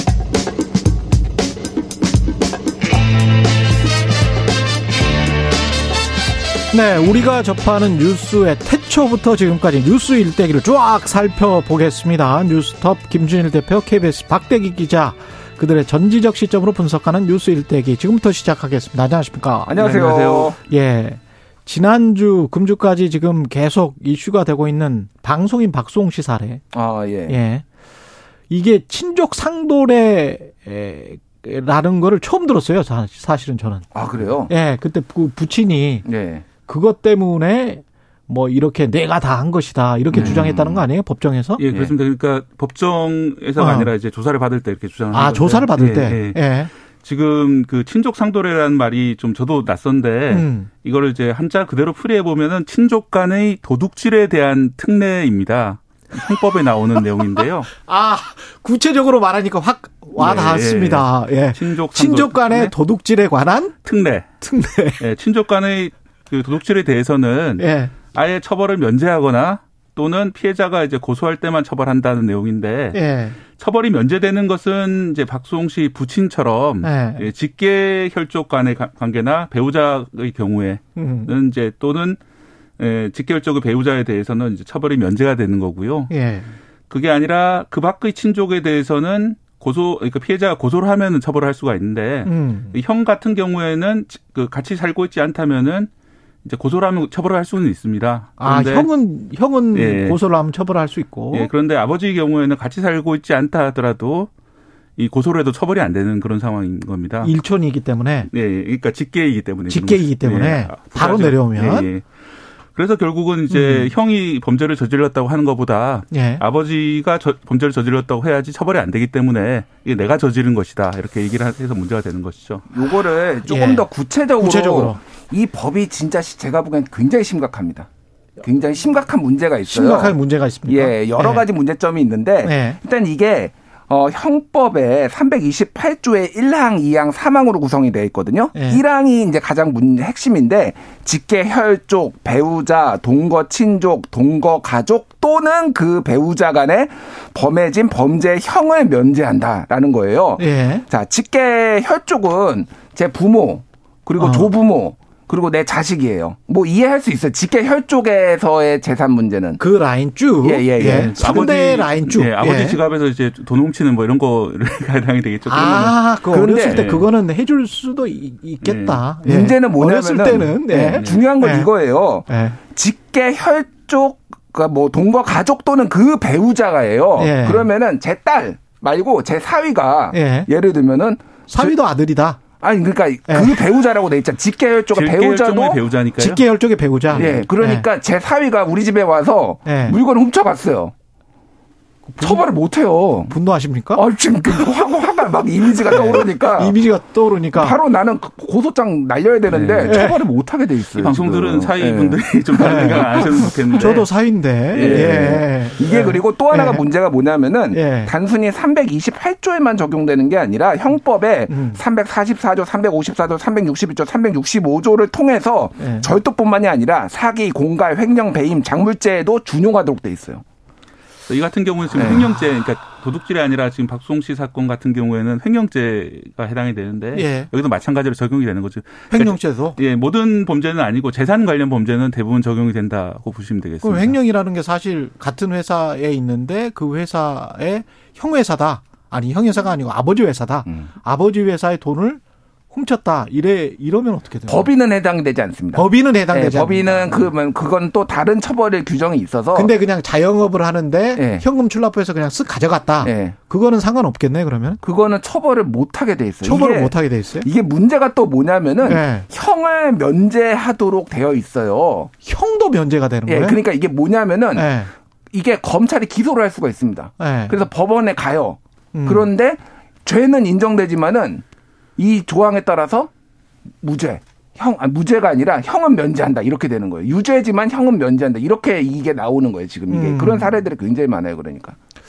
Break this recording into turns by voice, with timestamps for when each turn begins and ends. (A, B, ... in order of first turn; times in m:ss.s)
0:06.7-0:19.8 A
0:19.7-0:20.6 B
0:19.8-0:20.6 C
0:20.6-0:26.6 A
0:26.7-0:27.4 B
0:27.3-0:27.6 A
0:28.5-0:33.9 A
0:33.9-0:34.5 B
0:34.4-0:36.0 A
0:36.0-0:36.4 B
0:36.6-0:41.6 A
0:40.1-0:40.5 C
0:40.1-0:40.8 B
0:41.6-0:46.4 C
0:41.7-0:41.9 B
0:43.6-0:43.9 A
0:45.1-0:46.7 A
0:47.0-0:57.7 C
0:50.3-0:50.7 A
0:57.8-1:03.8 A
1:00.2-1:02.7 C
1:03.8-1:04.3 C
1:04.4-1:05.0 A
1:05.0-1:13.0 C
1:07.6-1:07.9 A
1:12.9-1:13.4 A
1:13.6-1:22.2 C
1:16.8-1:17.3 A
1:21.0-1:21.3 A
1:22.8-1:26.1 C
1:26.1-1:26.5 A
1:26.9-1:35.9 C
1:32.2-1:32.8 A
1:36.4-1:38.9 C
1:38.4-1:41.5 A
1:39.7-1:40.2 C
1:41.3-1:44.3 C
1:45.0-1:47.3 C
1:47.2-1:48.3 A
1:48.3-1:52.0 C
1:49.7-1:51.9 A
1:52.7-2:02.7 C
1:53.5-1:53.9 A
1:56.1-1:56.4 A
2:02.7-2:07.9 B
2:03.4-2:05.0 A
2:08.4-2:39.6 B
2:09.7-2:11.4 A
2:12.4-2:12.8 A
2:18.5-2:18.8 A
2:30.4-2:30.8 A
2:34.2-2:34.5 A
2:39.6-2:42.8 A
2:40.4-2:41.5 B
2:40.8-2:46.1 C
2:45.4-2:51.7 A
2:46.3-2:46.8 B
2:46.6-2:47.1 C
2:48.6-2:49.0 C
2:49.2-3:01.7 B
2:51.0-2:51.3 C
2:52.2-2:52.6 A
2:57.2-2:57.7 A
3:00.1-3:00.5 A
3:01.5-3:02.4 A
3:02.6-3:05.8 B
3:03.3-3:03.6 A
3:04.9-3:06.4 C
3:06.2-3:07.8 A
3:07.1-3:10.9 B
3:09.6-3:10.0 A
3:12.1-3:12.5 A
3:12.2-3:13.3 B
3:13.3-3:14.7 A
3:13.9-3:16.8 B
3:15.8-3:17.8 A
3:17.5-3:23.5 B
3:19.5-3:20.0 C
3:19.8-3:20.3 A
3:20.9-3:24.1 C
3:22.6-3:26.8 A
3:24.7-3:25.3 C
3:24.7-3:40.4 B
3:27.7-3:28.1 A
3:31.5-3:31.8 A
3:35.8-3:36.1 A
3:41.3-3:54.2 C
3:42.0-3:42.3 B
3:47.1-3:47.5 A
3:49.1-3:49.8 A
3:53.8-4:04.7 A
4:04.5-4:09.7 B
4:05.7-4:07.3 A
4:09.5-4:14.8 A
4:11.1-4:11.4 B
4:13.0-4:13.4 B
4:14.8-4:22.1 B
4:16.4-4:17.5 A
4:18.8-4:19.3 A
4:22.2-4:23.6 A
4:23.3-4:24.7 B
4:24.5-4:24.9 A
4:25.3-4:31.4 B
4:27.2-4:27.6 A
4:28.9-4:29.3 A
4:32.0-4:33.1 B
4:33.8-4:41.8 B
4:39.9-4:40.6 A